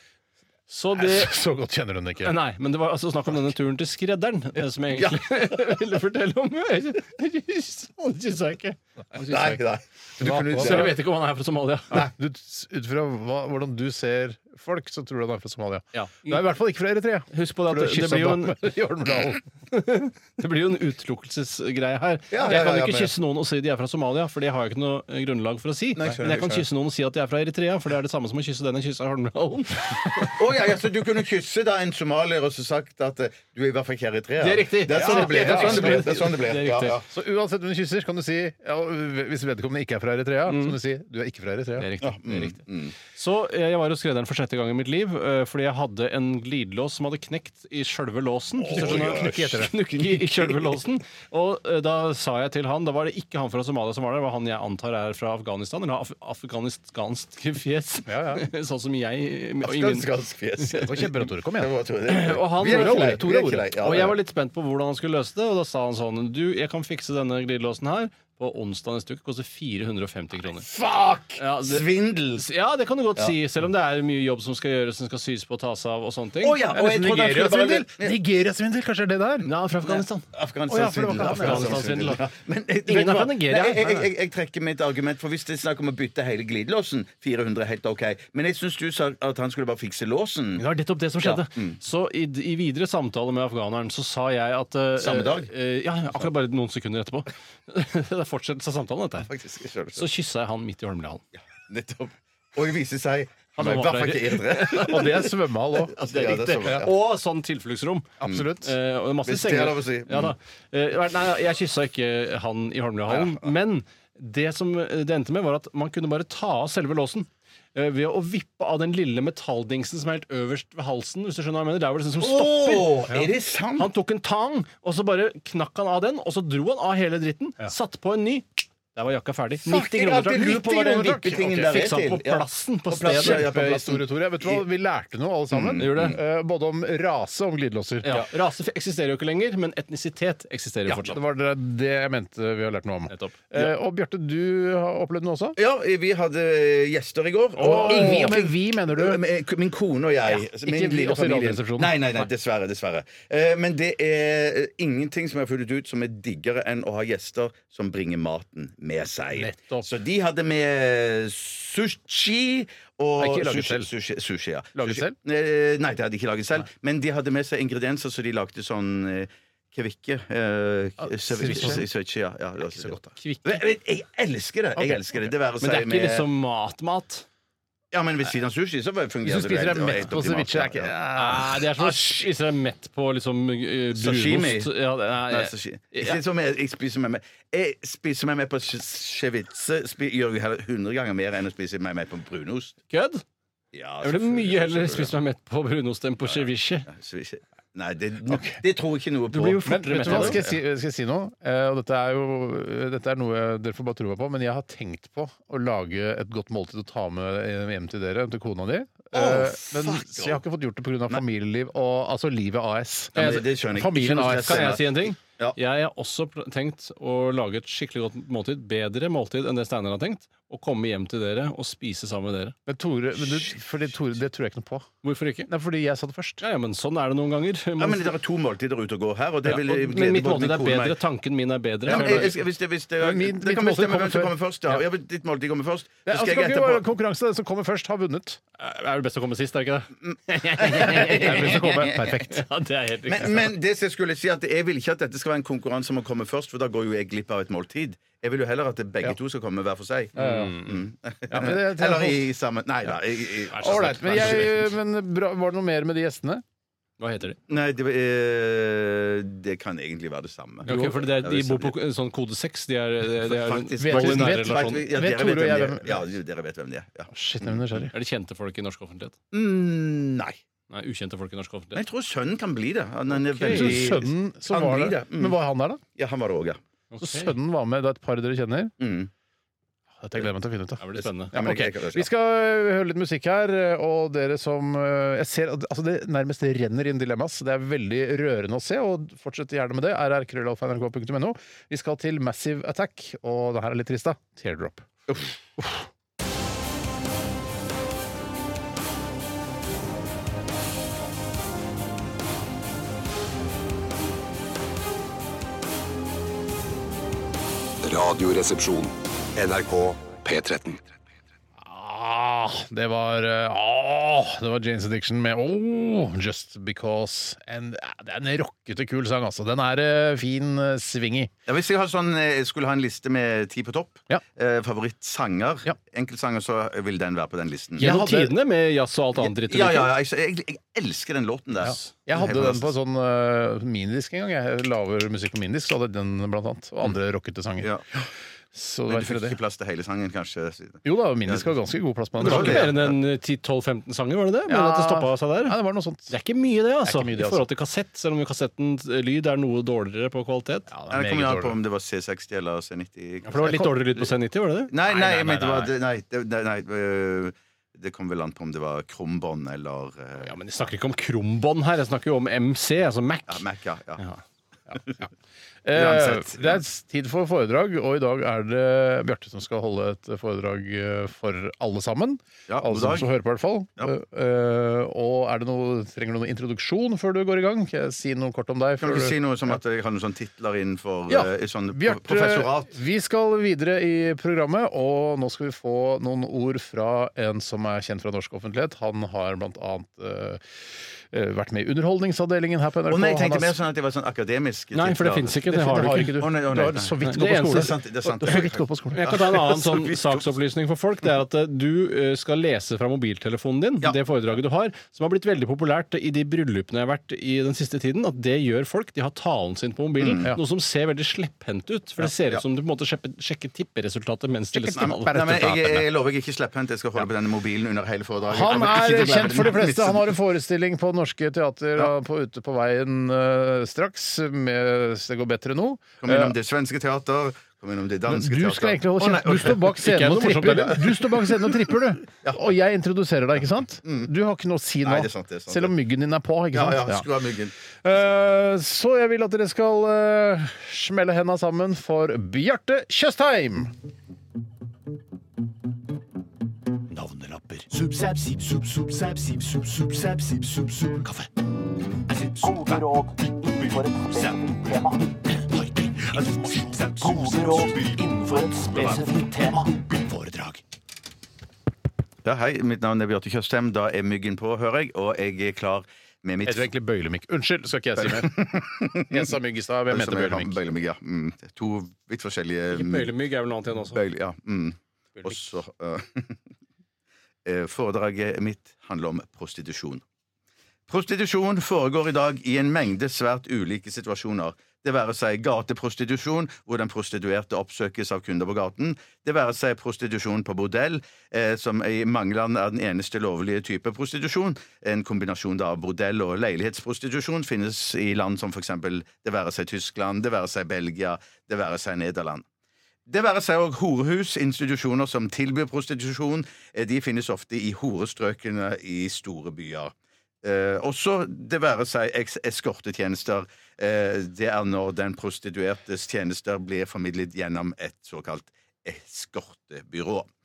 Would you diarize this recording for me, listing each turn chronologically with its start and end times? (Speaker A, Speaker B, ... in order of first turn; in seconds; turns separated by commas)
Speaker A: 0.7-1.4, Speaker B: 1.0-2.4, Speaker A: 2.2-9.6, Speaker C: 5.0-5.3, Speaker C: 9.3-11.0, Speaker B: 10.2-10.9, Speaker A: 10.2-12.1, Speaker B: 11.9-19.4, Speaker A: 15.9-16.4, Speaker A: 17.3-18.6, Speaker A: 19.7-30.4, Speaker C: 22.3-23.1, Speaker C: 26.0-26.6, Speaker B: 26.0-26.4, Speaker C: 30.3-37.1, Speaker A: 34.4-37.0, Speaker B: 34.9-36.2, Speaker B: 37.1-41.9, Speaker A: 40.5-40.8, Speaker A: 41.8-42.6, Speaker C: 42.0-43.0, Speaker A: 43.1-60.1, Speaker C: 48.6-49.6, Speaker B: 48.7-49.7, Speaker B: 58.1-58.5, Speaker C: 59.6-64.2, Speaker B: 60.7-61.7, Speaker A: 62.1-70.7, Speaker B: 62.6-63.2, Speaker C: 70.6-72.5, Speaker A: 71.4-76.6, Speaker C: 76.4-78.2, Speaker B: 76.7-79.5, Speaker A: 79.4-80.2, Speaker C: 79.9-90.7, Speaker B: 80.7-82.1, Speaker A: 81.2-82.2, Speaker A: 82.9-84.1, Speaker A: 90.6-99.3, Speaker C: 91.2-91.8, Speaker C: 95.0-95.5, Speaker C: 99.2-100.1, Speaker A: 100.0-101.2, Speaker C: 101.7-105.3, Speaker A: 103.5-105.3, Speaker B: 104.7-106.0, Speaker C: 105.9-106.9, Speaker A: 106.0-123.1, Speaker B: 108.2-108.7, Speaker C: 109.2-110.3, Speaker C: 113.1-113.5, Speaker C: 122.2-123.9, Speaker A: 123.8-130.8, Speaker C: 129.7-134.6, Speaker B: 130.3-131.6, Speaker A: 131.5-133.5, Speaker B: 133.0-138.2, Speaker C: 135.5-136.2, Speaker A: 135.8-136.2, Speaker A: 138.0-141.2, Speaker B: 140.9-145.6, Speaker A: 143.1-143.4, Speaker C: 145.6-176.3, Speaker B: 147.6-149.2, Speaker A: 147.6-148.3, Speaker B: 150.3-152.0, Speaker B: 159.3-159.9, Speaker B: 163.2-163.9, Speaker B: 164.8-165.2, Speaker B: 171.0-171.8, Speaker B: 172.8-173.1, Speaker A: 173.2-173.6, Speaker B: 174.8-175.3, Speaker A: 175.6-177.2, Speaker C: 177.9-180.9, Speaker B: 179.2-182.1, Speaker A: 181.1-186.2, Speaker C: 183.9-184.8, Speaker C: 185.3-192.8, Speaker A: 192.9-193.2, Speaker C: 193.7-195.1, Speaker A: 194.0-196.9, Speaker C: 196.3-200.6, Speaker B: 198.3-198.6, Speaker A: 199.3-200.4, Speaker B: 199.7-214.8, Speaker C: 209.1-210.4, Speaker A: 213.2-213.4, Speaker C: 213.2-215.6, Speaker A: 214.4-222.6, Speaker B: 222.7-224.9, Speaker A: 225.0-225.5, Speaker B: 225.5-226.4, Speaker A: 226.4-228.1, Speaker C: 227.8-231.0, Speaker A: 229.5-232.3, Speaker B: 231.9-232.4, Speaker C: 231.9-236.8, Speaker B: 233.0-234.8, Speaker B: 236.1-238.4, Speaker A: 238.6-243.5, Speaker C: 240.1-242.2, Speaker B: 240.7-242.4, Speaker C: 243.1-254.6, Speaker B: 250.2-250.6, Speaker A: 250.2-250.8, Speaker B: 251.3-252.2, Speaker A: 253.5-254.6, Speaker B: 253.6-256.4, Speaker A: 257.0-257.4, Speaker C: 257.5-261.8, Speaker A: 260.6-264.9, Speaker B: 260.7-260.9, Speaker C: 263.2-267.9, Speaker B: 263.8-266.1, Speaker B: 267.1-267.9, Speaker A: 267.9-269.1, Speaker C: 269.3-270.4, Speaker A: 270.7-271.8, Speaker C: 271.8-275.4, Speaker A: 273.1-273.9, Speaker B: 273.4-275.8, Speaker C: 276.0-276.6, Speaker A: 276.9-277.3, Speaker B: 277.0-278.7, Speaker C: 278.8-279.1, Speaker B: 280.0-294.9, Speaker A: 280.8-281.4, Speaker C: 281.3-282.1, Speaker B: 295.6-295.8, Speaker D: 307.8-310.8, Speaker B: 311.6-321.3, Speaker C: 321.5-327.9, Speaker B: 327.8-328.3, Speaker A: 327.8-329.9, Speaker C: 329.2-332.7, Speaker B: 331.6-337.7, Speaker B: 338.5-339.4, Speaker C: 338.9-341.5, Speaker B: 340.8-342.7, Speaker C: 342.2-343.0, Speaker A: 342.2-345.6, Speaker B: 344.5-346.1, Speaker A: 346.1-350.7, Speaker B: 346.8-347.5, Speaker B: 350.7-351.6, Speaker C: 350.9-354.1, Speaker A: 353.3-354.8, Speaker C: 354.7-360.4, Speaker B: 355.0-355.6, Speaker A: 360.2-363.4, Speaker C: 363.3-364.0, Speaker C: 364.7-365.0, Speaker B: 365.6-379.6, Speaker C: 365.7-366.6, Speaker C: 372.5-373.1, Speaker C: 378.8-382.7, Speaker B: 381.1-393.6, Speaker C: 392.9-400.3, Speaker A: 394.7-396.2, Speaker B: 395.5-399.2, Speaker A: 397.0-397.7, Speaker A: 398.9-415.4, Speaker C: 410.0-410.3, Speaker B: 414.5-415.9, Speaker C: 414.8-420.1, Speaker B: 418.3-426.4, Speaker C: 426.0-429.8, Speaker B: 428.1-437.1, Speaker A: 429.8-431.0, Speaker C: 432.2-432.5, Speaker C: 433.9-434.1, Speaker C: 434.8-435.7, Speaker C: 436.5-437.5, Speaker B: 437.8-443.7, Speaker A: 458.7-459.0, Speaker A: 460.1-460.6, Speaker C: 462.2-466.7, Speaker B: 466.4-468.4, Speaker C: 468.0-469.3, Speaker B: 469.0-470.6, Speaker C: 469.9-473.1, Speaker A: 472.7-474.0, Speaker C: 473.9-476.4, Speaker C: 477.4-480.0, Speaker C: 480.9-502.4, Speaker C: 503.1-520.3